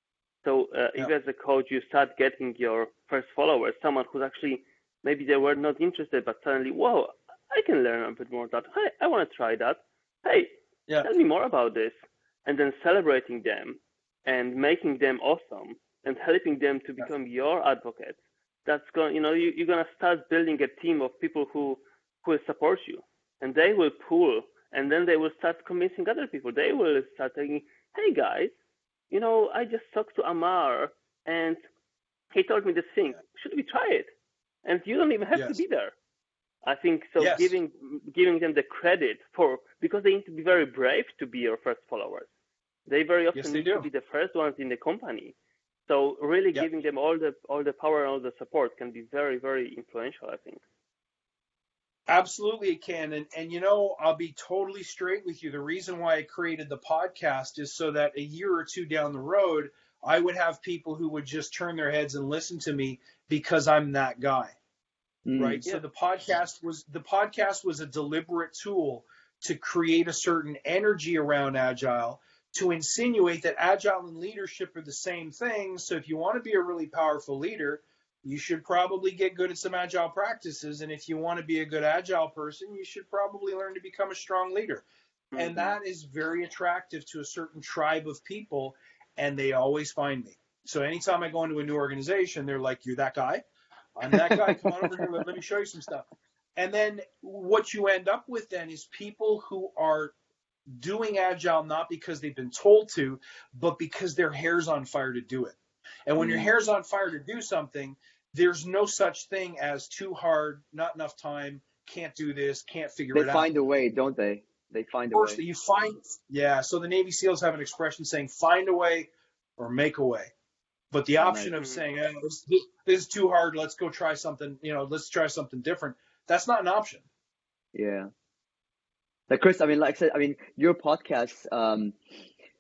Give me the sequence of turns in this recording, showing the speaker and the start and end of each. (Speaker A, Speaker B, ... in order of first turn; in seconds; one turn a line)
Speaker A: 0.4-11.9
Speaker A: 12.5-28.5
Speaker A: 29.1-31.6
Speaker A: 32.3-34.1
Speaker A: 34.6-35.9
Speaker B: 35.3-35.6
Speaker A: 36.6-42.3
Speaker B: 37.2-37.5
Speaker A: 42.9-45.4
Speaker B: 43.3-43.9
Speaker A: 45.9-50.6
Speaker B: 52.1-64.5
Speaker C: 65.3-65.6
Speaker B: 65.4-93.4
Speaker A: 85.3-85.8
Speaker B: 94.0-100.2
Speaker B: 100.7-113.5
Speaker C: 106.2-106.5
Speaker C: 113.1-115.4
Speaker B: 115.1-120.3
Speaker B: 120.9-127.0
Speaker C: 121.2-121.5
Speaker A: 121.6-121.8
Speaker C: 127.8-128.1
Speaker C: 129.3-131.9